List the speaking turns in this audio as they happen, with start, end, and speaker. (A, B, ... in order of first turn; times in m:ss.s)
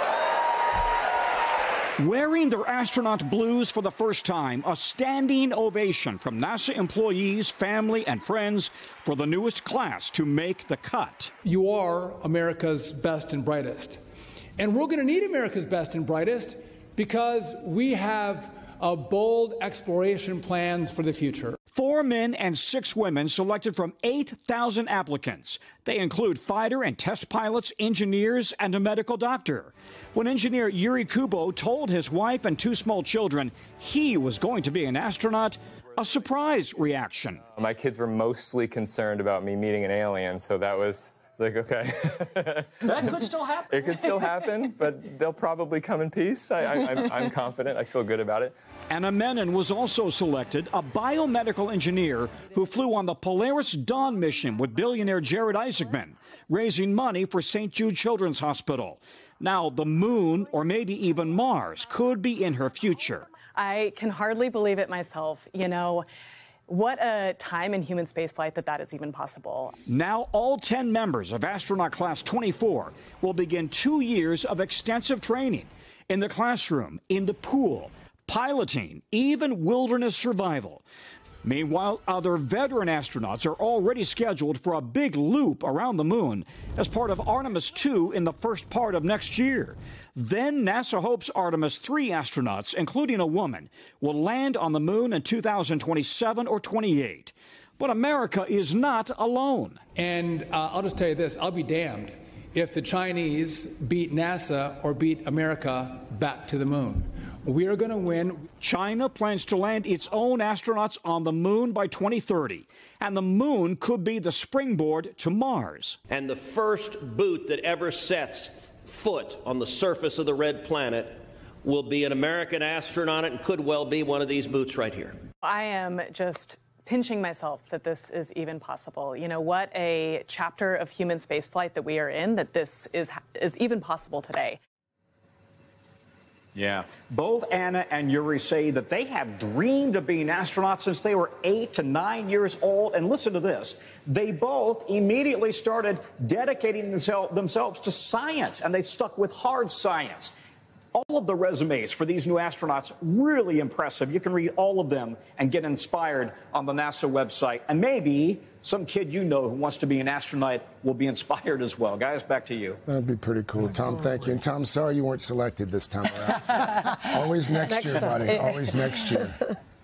0:02.0-0:11.3 A
0:11.4-0:14.0 B
0:14.6-0:21.6 B
0:21.8-0:37.4 A
0:37.6-0:43.2 C
0:42.9-0:44.0 A
0:43.7-0:48.6 C
0:48.9-1:03.3 A
1:03.6-1:06.1 D
1:06.7-1:09.8 D
1:09.9-1:20.8 A
1:21.4-1:39.8 A
1:40.0-1:48.5 B
1:48.6-1:56.0 A
1:56.1-2:05.2 E
2:05.4-2:14.6 D
2:16.6-2:30.3 A
2:30.9-2:42.8 A
2:42.9-2:49.4 F